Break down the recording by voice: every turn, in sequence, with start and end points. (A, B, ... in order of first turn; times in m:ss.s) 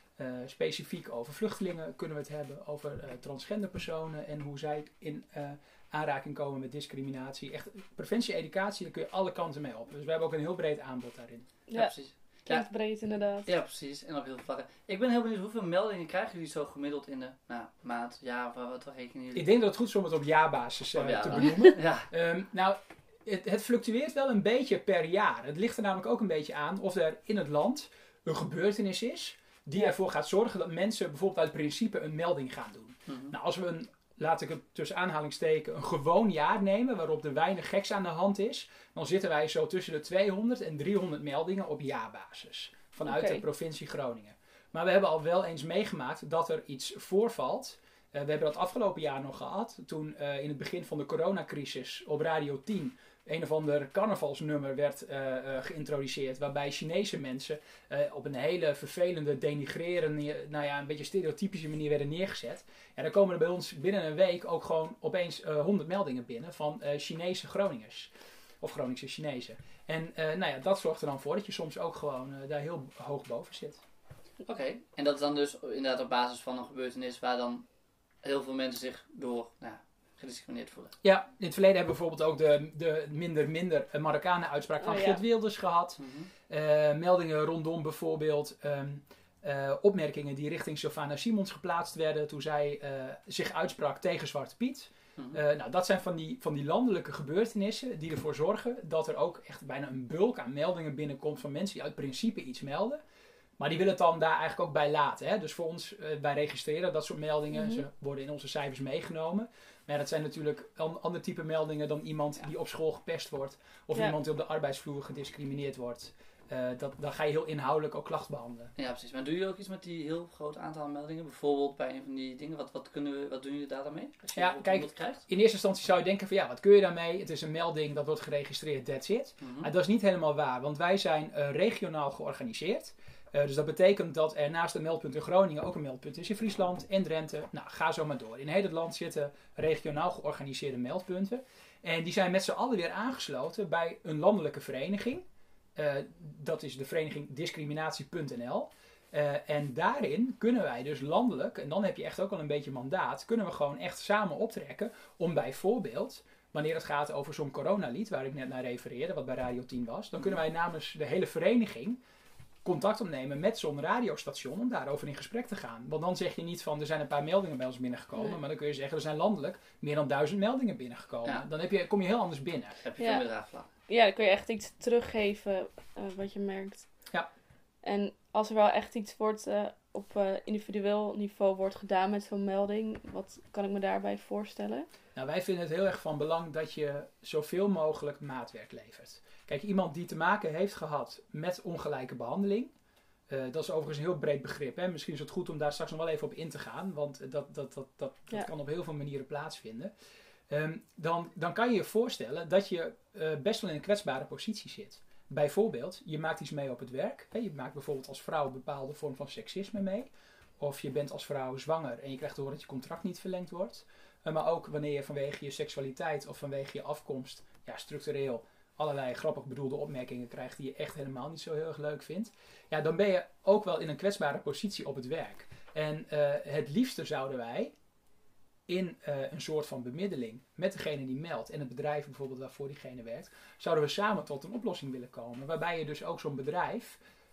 0:00.2-0:11.5 A
0:11.8-0:12.7 B
0:12.5-0:13.5 C
0:13.5-0:19.5 B
0:19.3-1:13.8 A
0:21.0-0:22.1 B
0:33.1-0:33.3 B
0:43.1-0:43.4 C
1:14.4-1:17.6 B
1:18.2-1:20.9 B
1:21.0-1:43.0 A
1:24.8-1:25.2 C
1:26.0-1:26.3 B
1:43.6-1:58.7 A
1:47.5-1:47.8 C
1:58.8-2:05.2 B
2:04.4-2:42.0 A
2:09.4-2:09.7 B
2:42.6-2:52.8 A
2:52.8-2:53.7 B
2:53.0-2:53.2 C
2:53.9-2:56.9 C
2:57.8-3:04.9 C
3:05.2-3:12.7 A
3:13.3-3:19.9 A
3:20.5-3:47.7 A
3:48.7-3:57.0 A